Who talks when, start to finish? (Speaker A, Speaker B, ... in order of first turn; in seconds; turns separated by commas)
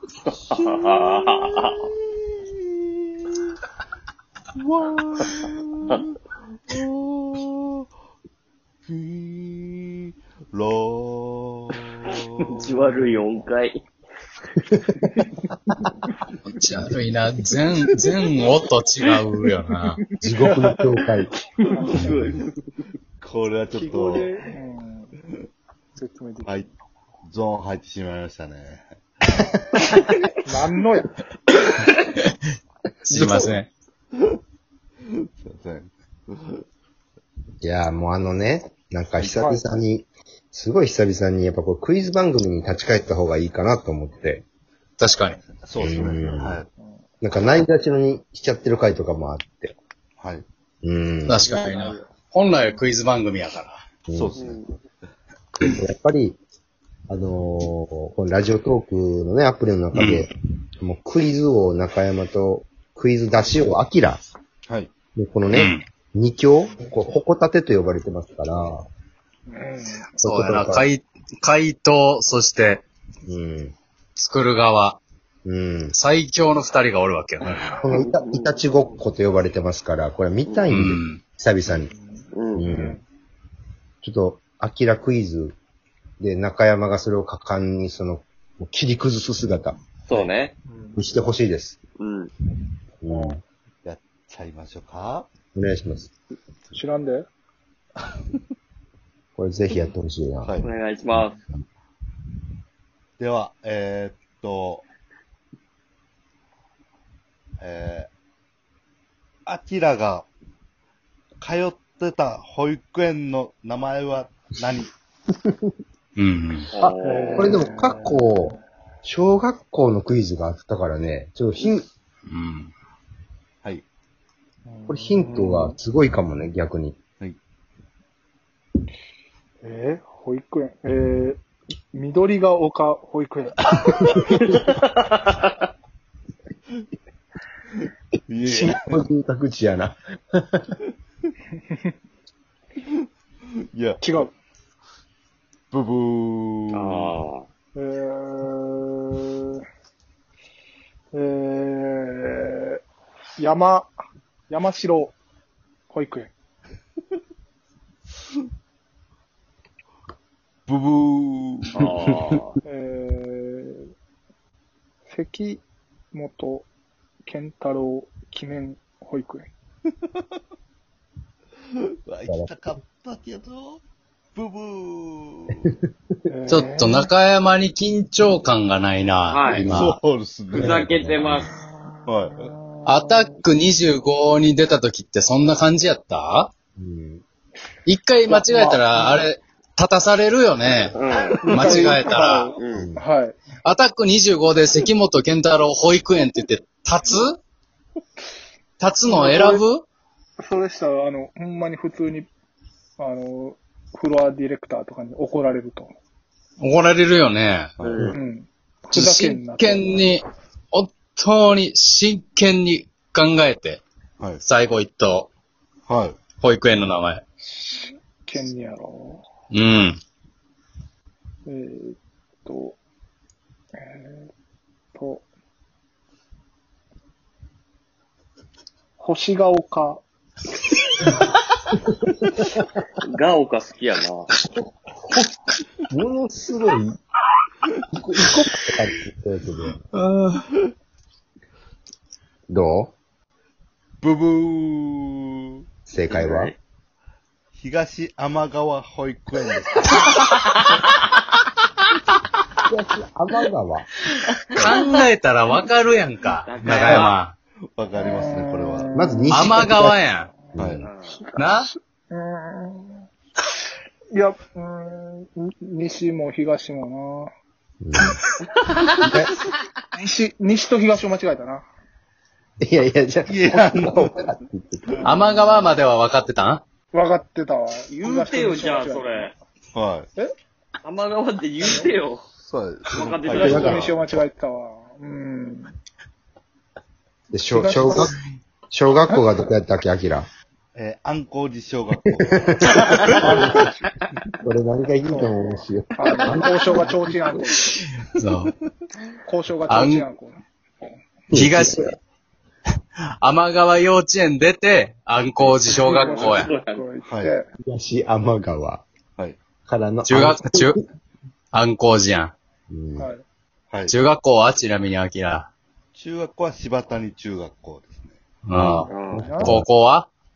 Speaker A: 0.4-2.8, Speaker B: 0.5-1.8, Speaker A: 4.5-6.1, Speaker A: 6.7-7.8, Speaker A: 8.8-13.2, Speaker B: 12.5-13.8, Speaker C: 14.6-14.8, Speaker D: 16.5-20.0, Speaker A: 17.7-18.1, Speaker C: 20.2-21.3, Speaker E: 20.4-20.8, Speaker B: 21.7-22.5, Speaker E: 21.7-22.1, Speaker A: 23.2-24.3, Speaker E: 23.7-25.1, Speaker E: 25.9-26.7, Speaker A: 27.3-28.9, Speaker E: 30.4-31.1, Speaker B: 31.6-31.9, Speaker D: 31.9-32.3, Speaker D: 33.1-33.7, Speaker A: 35.4-36.6, Speaker C: 37.6-44.4, Speaker D: 45.0-45.4, Speaker A: 45.4-46.7, Speaker C: 45.8-46.6, Speaker C: 47.2-49.8, Speaker A: 50.2-50.4, Speaker C: 50.8-51.5, Speaker D: 51.2-53.8, Speaker C: 54.1-54.4, Speaker A: 54.1-54.6, Speaker B: 54.4-54.7, Speaker C: 55.6-56.4, Speaker C: 57.1-60.3, Speaker D: 59.9-60.2, Speaker C: 60.8-64.2, Speaker A: 64.7-64.9, Speaker C: 65.1-68.8, Speaker D: 65.5-65.8, Speaker E: 69.5-70.0, Speaker D: 70.2-72.8, Speaker C: 70.2-70.9, Speaker C: 73.3-73.7, Speaker D: 74.2-75.0, Speaker C: 75.4-75.9, Speaker D: 75.9-77.7, Speaker C: 77.7-81.9, Speaker B: 77.9-78.6, Speaker D: 80.7-81.2, Speaker E: 81.9-83.0, Speaker B: 82.3-82.7, Speaker C: 82.5-83.0, Speaker C: 84.0-85.6, Speaker C: 86.2-90.3, Speaker B: 90.1-90.5, Speaker E: 90.7-91.0, Speaker C: 91.0-91.8, Speaker B: 92.0-92.3, Speaker C: 93.0-93.4, Speaker E: 93.1-93.4, Speaker A: 93.8-95.3, Speaker C: 95.5-96.1, Speaker E: 96.7-97.3, Speaker C: 99.4-100.5, Speaker A: 100.4-100.7, Speaker B: 100.6-101.3, Speaker A: 103.2-104.8, Speaker A: 107.6-108.1, Speaker A: 109.5-110.3, Speaker A: 111.4-114.9, Speaker D: 116.2-116.7, Speaker B: 116.7-117.6, Speaker C: 116.8-121.9, Speaker E: 117.0-118.3, Speaker D: 122.3-122.7, Speaker E: 124.7-125.7, Speaker C: 124.9-127.0, Speaker E: 129.6-133.6, Speaker B: 134.3-135.5, Speaker A: 138.3-139.0, Speaker C: 138.4-140.7, Speaker A: 143.7-144.0, Speaker E: 144.0-144.3, Speaker A: 145.7-147.1, Speaker B: 146.7-147.4, Speaker E: 147.7-149.6, Speaker E: 151.1-152.8, Speaker E: 153.4-153.9, Speaker E: 154.5-155.1, Speaker E: 155.9-156.3, Speaker A: 160.7-161.9, Speaker B: 161.7-162.6, Speaker E: 162.6-163.9, Speaker E: 165.1-166.7, Speaker E: 167.2-169.5, Speaker A: 172.0-173.8, Speaker A: 174.3-175.7, Speaker E: 176.3-177.0, Speaker D: 176.5-180.0, Speaker B: 179.3-179.7, Speaker A: 179.6-181.4, Speaker B: 180.5-181.5, Speaker C: 180.6-181.4, Speaker E: 181.6-183.4, Speaker A: 182.1-182.6, Speaker D: 182.8-186.5, Speaker C: 186.8-187.2, Speaker D: 187.8-192.5, Speaker E: 188.3-189.2, Speaker B: 190.9-191.5, Speaker E: 191.5-193.3, Speaker A: 191.6-191.9, Speaker B: 192.6-192.9, Speaker C: 192.7-193.0, Speaker D: 193.6-197.4, Speaker D: 198.8-199.8, Speaker E: 199.0-199.6, Speaker E: 200.4-202.3, Speaker E: 203.0-205.9, Speaker D: 206.6-207.7, Speaker A: 207.8-208.2, Speaker B: 207.8-208.2, Speaker E: 208.1-210.1, Speaker D: 208.9-213.8, Speaker D: 214.4-215.3, Speaker A: 215.9-216.2, Speaker D: 216.3-217.2, Speaker E: 217.4-219.2, Speaker D: 219.5-220.0, Speaker E: 221.4-222.8, Speaker E: 223.8-224.3, Speaker E: 224.9-225.2, Speaker E: 229.0-230.0, Speaker C: 232.3-232.6, Speaker B: 233.0-234.3, Speaker C: 235.9-237.0, Speaker C: 237.9-239.8, Speaker D: 239.9-240.4, Speaker C: 242.5-242.9, Speaker A: 244.0-245.6, Speaker C: 245.9-246.5, Speaker B: 246.1-246.6, Speaker A: 247.5-250.3, Speaker B: 250.3-250.8, Speaker C: 252.7-253.9, Speaker D: 254.6-257.3, Speaker B: 256.4-257.1, Speaker A: 257.7-258.9, Speaker E: 257.9-259.4, Speaker C: 258.9-259.9, Speaker D: 259.3-260.4, Speaker C: 260.5-260.9, Speaker A: 260.6-260.9, Speaker B: 260.8-261.2, Speaker E: 261.3-263.0, Speaker D: 261.4-261.7, Speaker E: 264.1-267.3, Speaker C: 267.8-268.2, Speaker C: 268.8-269.3, Speaker E: 269.9-271.6, Speaker C: 272.6-275.1, Speaker A: 273.3-274.2, Speaker E: 274.9-275.7, Speaker D: 275.0-276.6, Speaker E: 276.9-279.3, Speaker B: 277.9-279.3, Speaker A: 279.7-280.1, Speaker B: 280.8-282.2, Speaker E: 281.6-281.9, Speaker A: 282.4-283.9, Speaker B: 282.9-283.9, Speaker E: 283.3-285.7, Speaker C: 283.4-283.8, Speaker C: 287.3-288.1, Speaker E: 287.5-288.1, Speaker C: 288.7-290.3, Speaker A: 290.7-293.1, Speaker C: 292.5-293.7, Speaker E: 293.0-293.9, Speaker C: 294.4-297.4, Speaker E: 295.9-297.8, Speaker D: 298.1-298.5, Speaker E: 299.2-300.4, Speaker D: 299.7-300.1, Speaker C: 301.3-301.9, Speaker D: 301.3-301.9, Speaker D: 303.2-306.5, Speaker E: 305.6-307.5, Speaker B: 305.8-306.9, Speaker A: 307.1-307.3, Speaker C: 307.6-308.8, Speaker C: 309.6-310.8, Speaker D: 310.1-310.8, Speaker D: 311.5-312.3, Speaker C: 312.7-313.1, Speaker A: 313.7-314.0, Speaker D: 313.9-315.5, Speaker A: 315.9-318.2, Speaker D: 318.4-320.1, Speaker C: 318.5-319.7, Speaker B: 318.9-319.3, Speaker E: 319.2-319.6